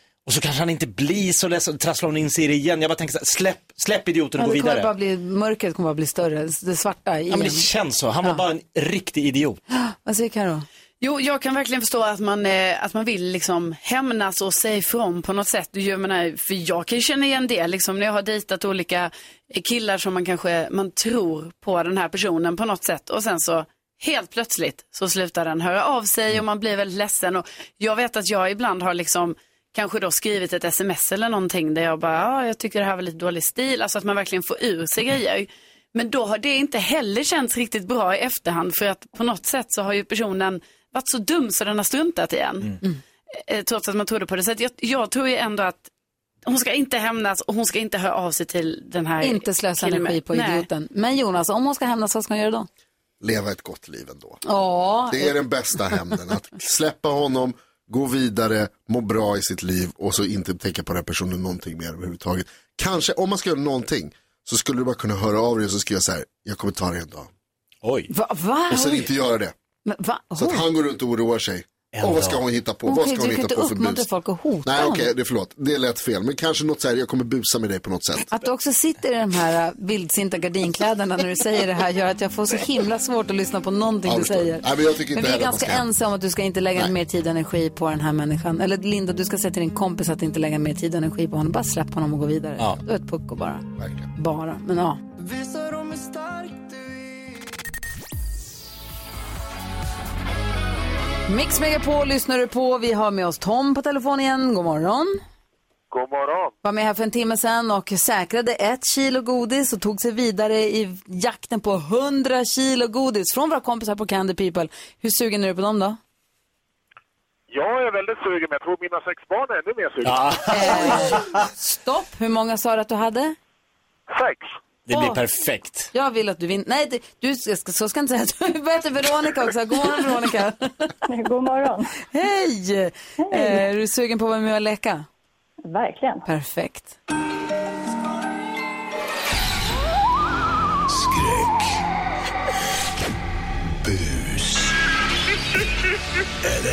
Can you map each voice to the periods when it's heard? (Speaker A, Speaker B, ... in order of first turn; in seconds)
Speaker A: 0.2-4.9, 7.3-9.6, 67.8-68.1, 71.9-72.4, 120.0-121.5, 124.9-125.9
Speaker B: 4.4-7.7, 9.7-10.7, 49.2-52.7, 54.4-55.4, 68.1-69.1, 69.8-70.7, 72.8-75.1, 78.3-95.0, 101.3-105.2, 106.6-116.0, 120.5-123.3, 124.9-125.2, 125.9-131.0, 132.1-135.1, 136.2-137.0
Speaker C: 11.0-42.8, 43.3-45.9, 46.5-50.7
Speaker D: 53.2-54.4, 55.1-67.3, 68.7-69.5, 70.3-74.1, 74.6-78.3, 84.0-85.9, 93.8-94.1
Speaker E: 105.9-106.5, 117.5-120.3, 124.1-124.5
Speaker F: 131.1-131.9, 133.2-133.6, 135.6-136.3